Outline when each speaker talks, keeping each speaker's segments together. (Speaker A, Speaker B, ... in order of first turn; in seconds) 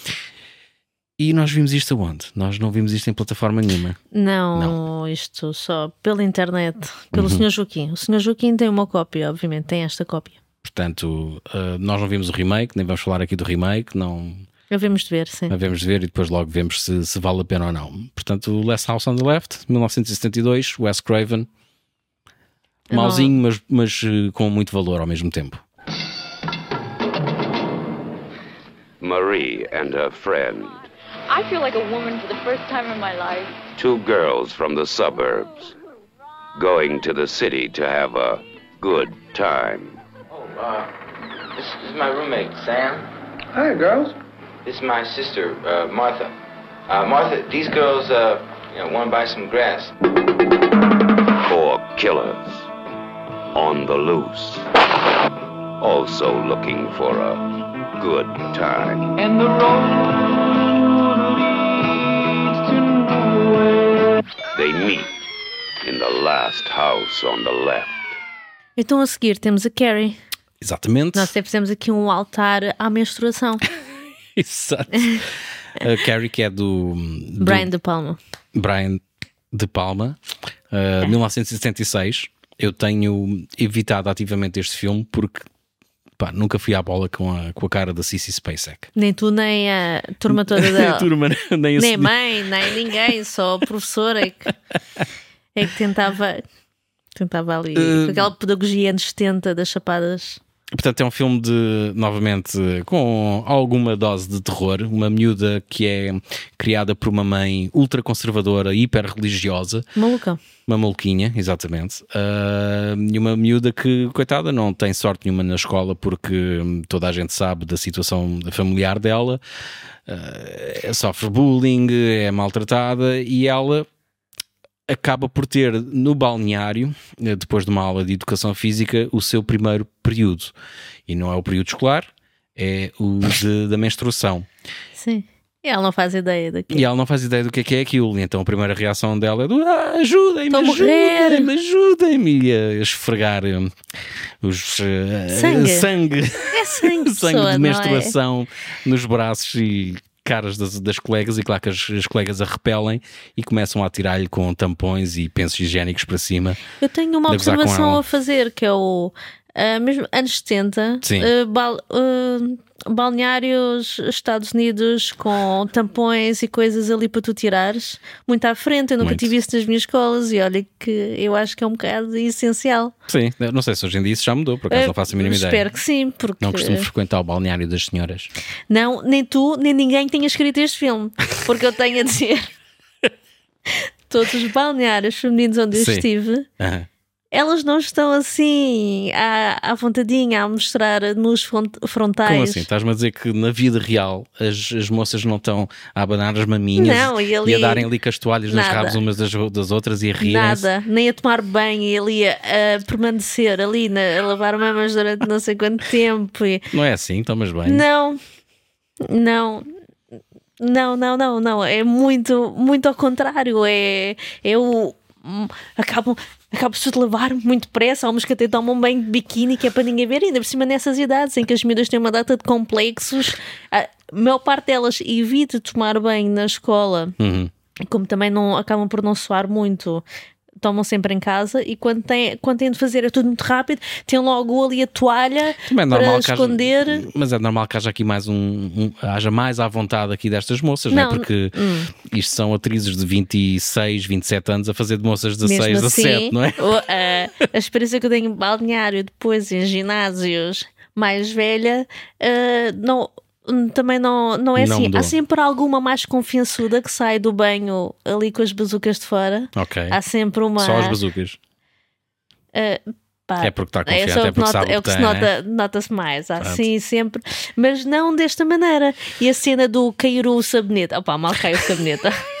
Speaker A: 1.2-4.0, 7.1-7.4, 10.6-14.4, 15.5-21.5, 22.9-25.6, 70.6-71.3, 74.3-77.7, 78.5-80.2, 80.7-85.5, 86.2-88.9, 90.3-92.8, 97.7-98.3, 100.7-109.9, 110.7-119.4, 120.1-123.9, 124.9-130.5, 131.1-134.5, 136.7-143.7, 144.4-156.6, 157.3-158.0, 161.0-161.3, 169.0-169.3, 173.1-175.7, 176.4-178.3, 185.7-186.1, 186.6-186.9, 192.2-200.7, 206.7-207.8, 227.2-227.5, 235.7-246.8, 254.6-255.1, 259.5-260.0, 260.6-261.4, 263.4-265.3
Speaker B: 4.1-10.4, 14.7-15.5, 22.9-23.3, 68.8-70.2, 71.1-73.6, 77.4-78.2, 89.0-91.1, 91.8-94.5, 95.5-96.4, 97.2-100.4, 110.0-110.4, 135.0-136.8, 140.5-141.5, 145.3-145.9, 146.5-148.1, 156.8-172.9, 174.7-176.8, 178.7-182.5, 183.7-186.5, 187.3-192.7, 196.8-197.9, 198.5-199.0, 200.2-206.6, 207.7-208.2, 209.1-209.7, 210.6-227.1, 227.8-230.0, 230.6-237.0, 240.9-241.9, 245.4-261.0, 262.5-272.2
Speaker C: 29.0-30.9, 33.8-35.7, 36.5-40.0, 51.4-52.7, 53.5-54.7, 55.8-59.1, 64.5-65.1, 65.8-68.1
Speaker D: 31.3-33.6
Speaker E: 40.3-40.9, 41.5-43.0, 44.6-46.3, 46.9-49.9
Speaker F: 43.5-44.1, 59.2-61.4, 62.5-63.9